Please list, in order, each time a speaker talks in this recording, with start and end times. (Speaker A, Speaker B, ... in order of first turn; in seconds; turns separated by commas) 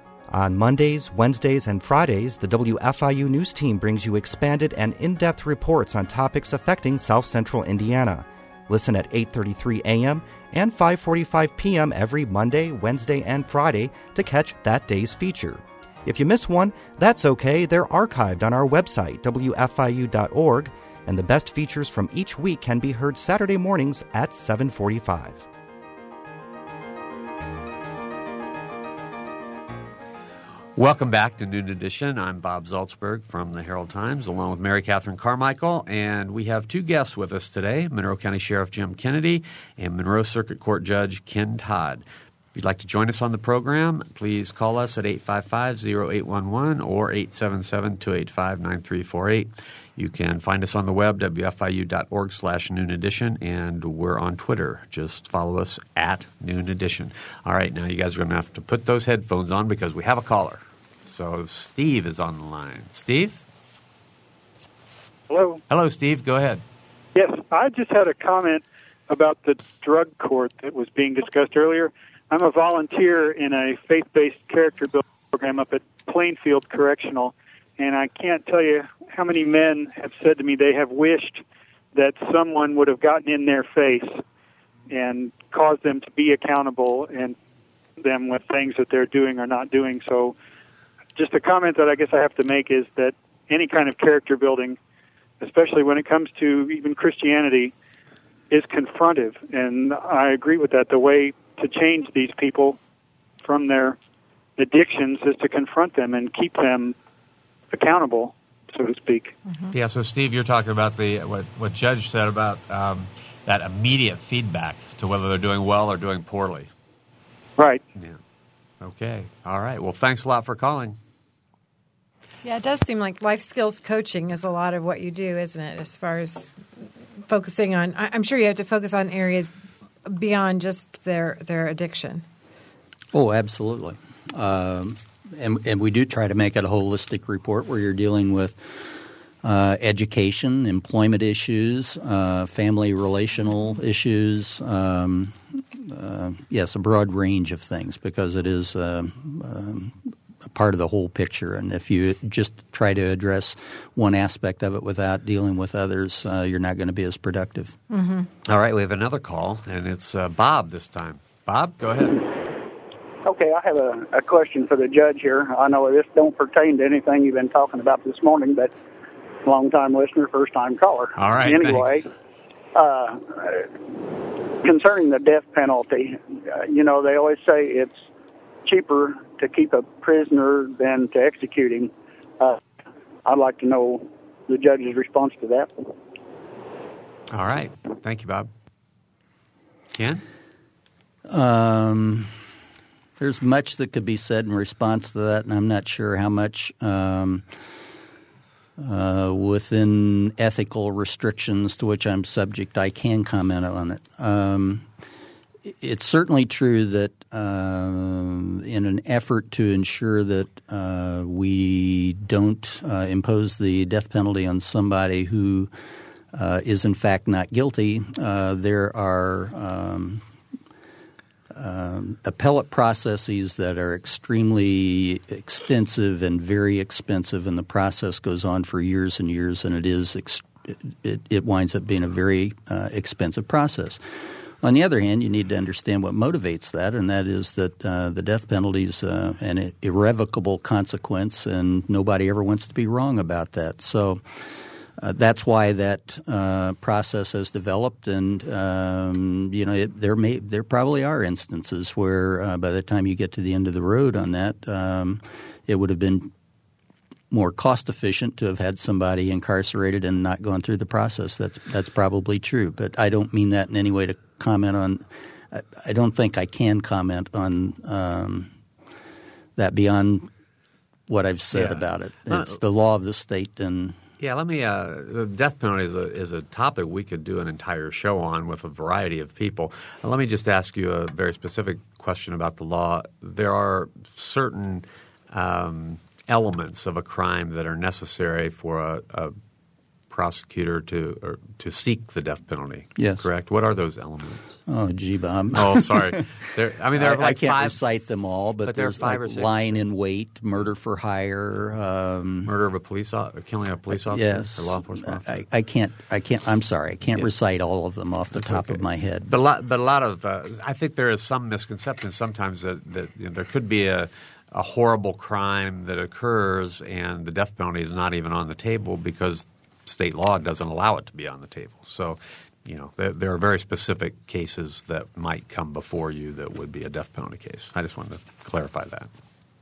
Speaker A: 0.3-25.4, Speaker B: 30.8-42.0, Speaker B: 42.5-63.4, Speaker C: 65.3-65.6, Speaker B: 65.7-66.6, Speaker C: 67.1-84.2, Speaker C: 84.9-87.3, Speaker C: 88.0-90.3, Speaker C: 91.1-94.8, Speaker C: 95.4-97.7, Speaker C: 98.5-102.8, Speaker C: 103.4-104.0, Speaker C: 104.6-107.0, Speaker C: 107.7-109.3, Speaker B: 109.7-116.7, Speaker C: 117.6-117.8, Speaker B: 118.8-121.0, Speaker D: 122.4-126.6, Speaker D: 127.3-129.5, Speaker D: 130.1-132.2, Speaker E: 133.1-138.8, Speaker E: 139.4-157.8, Speaker D: 157.9-158.3, Speaker B: 158.4-162.3, Speaker F: 163.2-168.7, Speaker F: 169.4-172.1, Speaker B: 171.2-172.0, Speaker F: 172.7-173.7, Speaker F: 174.6-178.0, Speaker F: 178.6-182.6, Speaker F: 183.2-185.7, Speaker B: 187.3-188.5, Speaker B: 189.9-190.2, Speaker E: 191.3-192.3, Speaker E: 193.2-197.4, Speaker E: 198.8-204.8, Speaker E: 205.7-215.7, Speaker E: 216.3-220.2, Speaker E: 221.5-234.0, Speaker E: 234.6-244.2, Speaker E: 245.0-256.3, Speaker E: 257.3-268.5, Speaker E: 269.6-270.3, Speaker E: 271.1-274.0, Speaker B: 271.5-272.6, Speaker B: 274.2-289.4, Speaker B: 290.1-294.6, Speaker E: 293.0-293.2, Speaker E: 294.7-296.2, Speaker B: 295.5-297.8, Speaker E: 296.9-302.5, Speaker B: 298.6-299.8, Speaker B: 302.4-305.4, Speaker E: 303.9-309.3, Speaker B: 308.3-329.1